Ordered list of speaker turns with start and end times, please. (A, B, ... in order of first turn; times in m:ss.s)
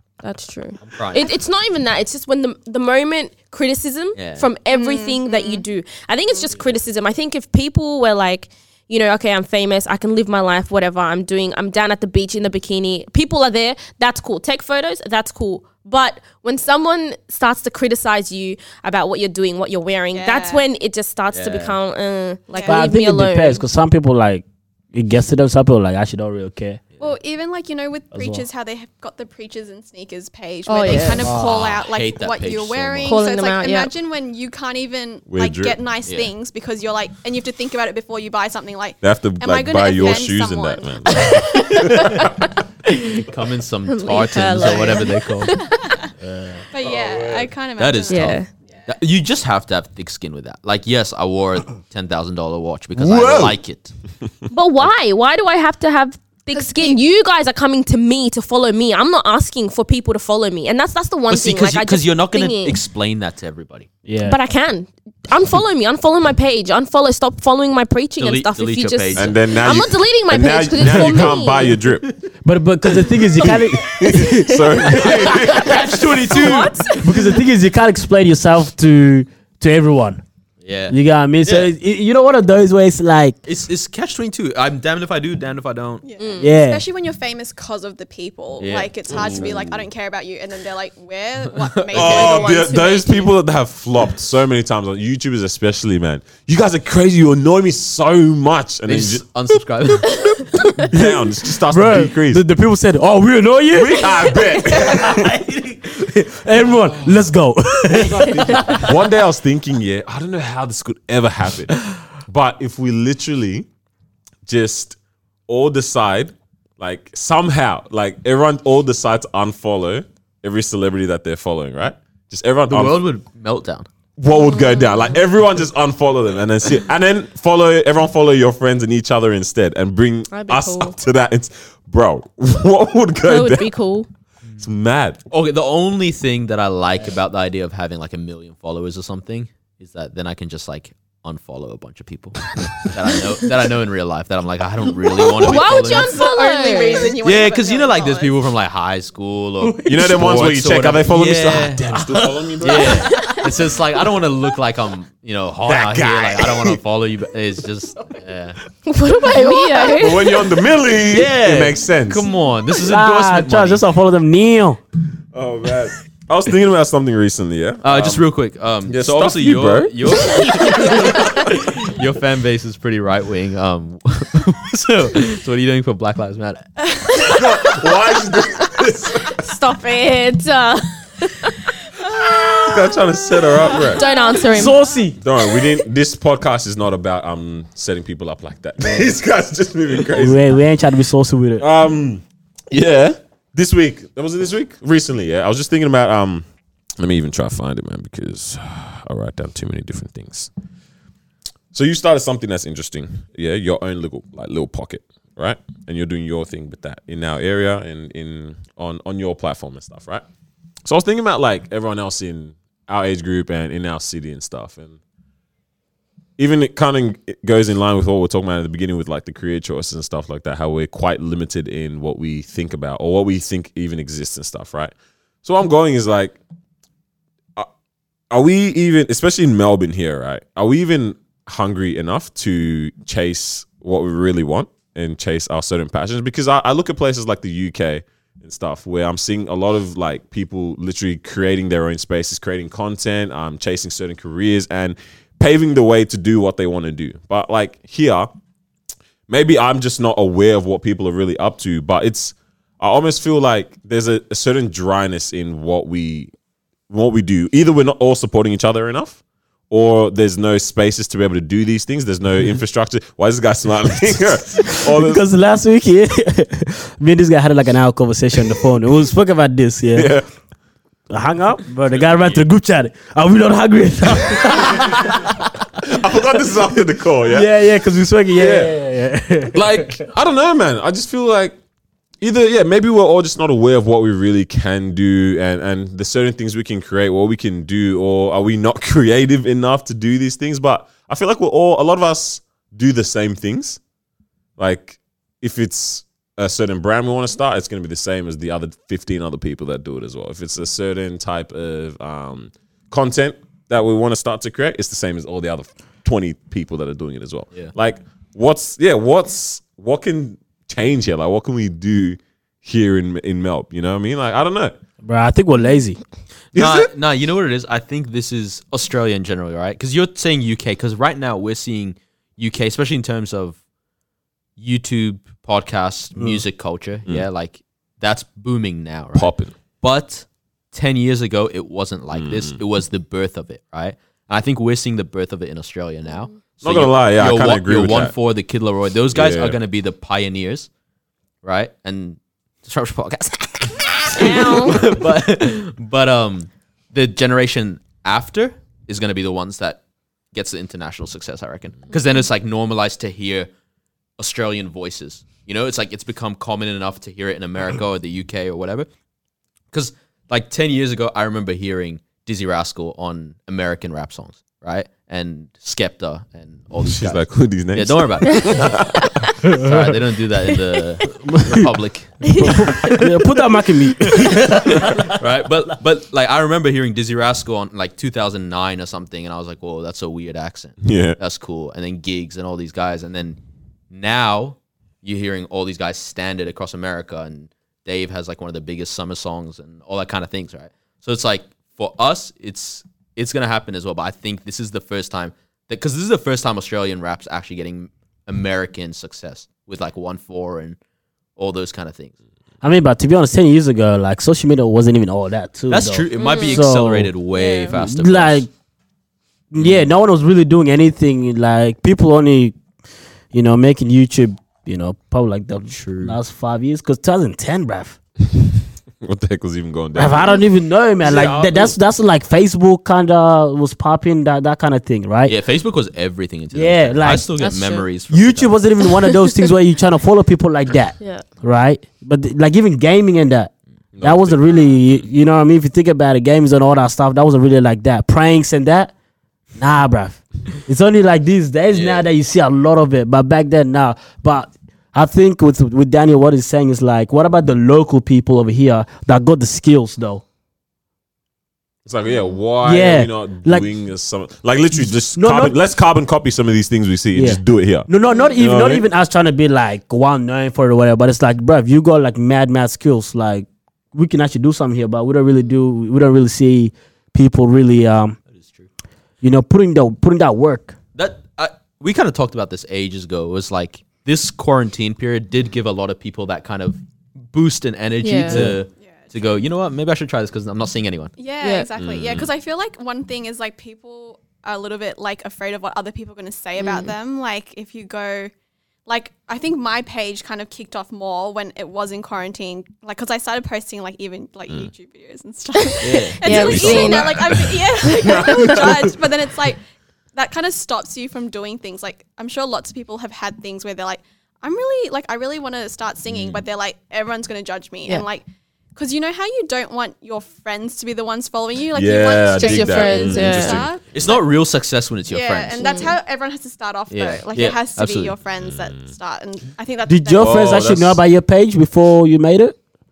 0:00.2-0:23.6 A
0:00.8-0:01.3 B
0:04.2-0:04.5 B
0:04.7-0:05.6 C
0:20.1-0:20.6 C
0:21.3-0:21.8 B
0:22.5-0:22.8 C
0:22.7-0:26.8 D
0:27.0-0:42.0 C
0:28.1-0:28.4 D
0:30.7-0:31.3 A
0:31.2-0:31.6 D
0:31.3-0:33.2 B
0:33.0-0:33.9 A
0:35.3-0:35.8 E
0:36.1-0:36.3 B
0:39.0-0:42.3 E
0:41.2-0:43.3 A
0:43.2-0:45.6 B
0:43.9-0:45.9 A
0:45.6-0:46.1 C
0:46.3-0:46.6 D
0:46.7-0:48.4 C
0:46.8-0:47.4 E
0:47.8-0:53.9 B
0:48.1-0:48.5 A
0:53.0-0:53.6 E
0:54.5-1:02.8 A
0:56.5-0:57.0 C
1:01.3-1:03.9 B
1:04.1-1:04.4 D
1:04.2-1:11.8 A
1:08.2-1:09.3 B
1:09.2-1:12.1 E
1:12.4-1:15.1 D
1:13.4-1:16.4 E
1:15.0-1:16.9 B
1:16.3-1:17.3 A
1:17.0-1:20.2 D
1:20.6-1:21.7 B
1:20.9-1:23.4 D
1:23.4-1:26.0 B
1:26.0-1:32.8 C
1:26.2-1:26.5 A
1:26.4-1:26.8 D
1:28.6-1:29.8 B
1:31.5-1:32.2 B
1:31.9-1:39.2 E
1:32.0-1:33.3 A
1:38.9-1:40.3 B
1:40.8-1:42.4 E
1:40.9-1:44.2 D
1:43.7-1:45.4 E
1:44.7-1:48.8 D
1:46.8-1:47.3 E
1:47.9-1:53.7 E
1:54.5-1:55.0 E
1:55.5-2:03.0 E
2:02.7-2:03.9 B
2:04.2-2:13.7 E
2:04.4-2:05.1 A
2:10.3-2:11.0 A
2:13.2-2:14.1 A
2:14.6-2:15.2 E
2:15.3-2:26.1 B
2:25.4-2:27.2 A
2:25.7-2:28.4 C
2:27.2-2:31.9 B
2:29.6-2:30.0 D
2:29.9-2:33.1 E
2:31.9-2:33.4 D
2:32.6-2:38.6 B
2:35.7-2:36.8 E
2:38.9-2:40.4 A
2:39.3-2:40.0 D
2:40.0-2:42.3 E
2:41.1-2:43.8 B
2:42.8-2:44.8 D
2:45.3-2:48.3 E
2:47.8-2:56.6 B
2:48.9-2:51.5 E
2:51.2-2:51.4 A
2:57.2-2:59.4 E
2:59.4-3:01.7 A
3:02.6-3:04.1 E
3:03.8-3:04.9 A
3:03.9-3:04.6 C
3:04.5-3:05.2 D
3:05.2-3:10.5 E
3:10.2-3:11.6 D
3:11.6-3:16.5 E
3:17.0-3:20.5 E
3:21.7-3:30.2 E
3:30.8-3:35.0 E
3:36.4-3:44.9 E
3:45.4-3:46.4 E
3:48.3-4:08.3 E
4:09.3-4:16.3 E
4:16.9-4:25.2 E
4:24.9-4:30.1 D
4:30.0-4:30.2 E
4:31.1-4:35.4 D
4:31.9-4:32.4 E
4:34.5-4:34.8 E
4:35.8-4:37.6 E
4:37.3-4:40.0 D
4:38.3-4:38.7 E
4:39.5-4:41.6 E
4:42.2-4:53.8 E
4:54.6-5:14.8 E
5:15.0-5:16.0 D
5:16.5-5:16.9 E
5:16.6-5:23.6 B
5:24.6-5:40.7 B
5:29.1-5:29.5 E
5:32.1-5:32.6 E
5:36.6-5:38.2 E
5:39.1-5:39.6 E
5:41.4-5:49.8 B
5:44.1-5:44.8 A
5:50.3-5:53.5 B
5:54.2-5:58.9 B
5:59.7-6:08.8 B
6:06.8-6:09.3 E
6:09.5-6:12.4 B
6:11.3-6:11.6 D
6:12.2-6:13.0 A
6:12.4-6:15.2 D
6:14.4-6:23.4 B
6:20.8-6:21.2 E
6:23.9-6:40.8 B
6:41.4-6:42.1 B
6:42.6-6:47.1 D
6:45.7-6:48.4 B
6:46.2-6:46.6 A
6:47.3-6:47.8 A
6:47.7-6:48.5 D
6:49.5-6:52.6 D
6:49.6-6:49.8 B
6:53.3-6:58.0 D
6:55.7-6:56.2 B
6:59.0-7:00.4 E
7:00.0-7:05.4 D
7:01.0-7:01.8 E
7:05.3-7:08.6 B
7:06.5-7:07.3 D
7:07.4-7:07.9 A
7:08.1-7:18.9 D
7:09.0-7:09.3 A
7:11.0-7:11.3 A
7:14.0-7:14.4 E
7:19.6-7:30.2 D
7:21.7-7:22.0 B
7:31.8-7:38.9 E
7:32.6-7:33.7 D
7:35.2-7:35.6 D
7:37.2-7:48.2 D
7:48.4-7:48.7 B
7:49.2-7:50.8 D
7:51.0-7:56.8 B
7:57.3-8:01.2 B
7:58.0-7:58.5 A
7:58.3-7:58.6 D
7:58.8-7:59.1 C
8:01.2-8:08.3 C
8:01.4-8:01.7 A
8:01.8-8:02.3 E
8:06.6-8:06.9 A
8:08.9-8:19.6 C
8:15.6-8:18.6 A
8:15.8-8:16.9 B
8:16.3-8:19.0 E
8:20.1-8:28.2 C
8:26.1-8:26.4 B
8:28.8-8:34.2 C
8:31.7-8:33.8 E
8:32.3-8:33.7 A
8:33.9-8:35.7 B
8:35.1-8:40.7 C
8:35.6-8:36.0 A
8:36.9-8:38.2 B
8:38.4-8:38.9 E
8:39.9-8:42.6 D
8:40.2-8:41.0 E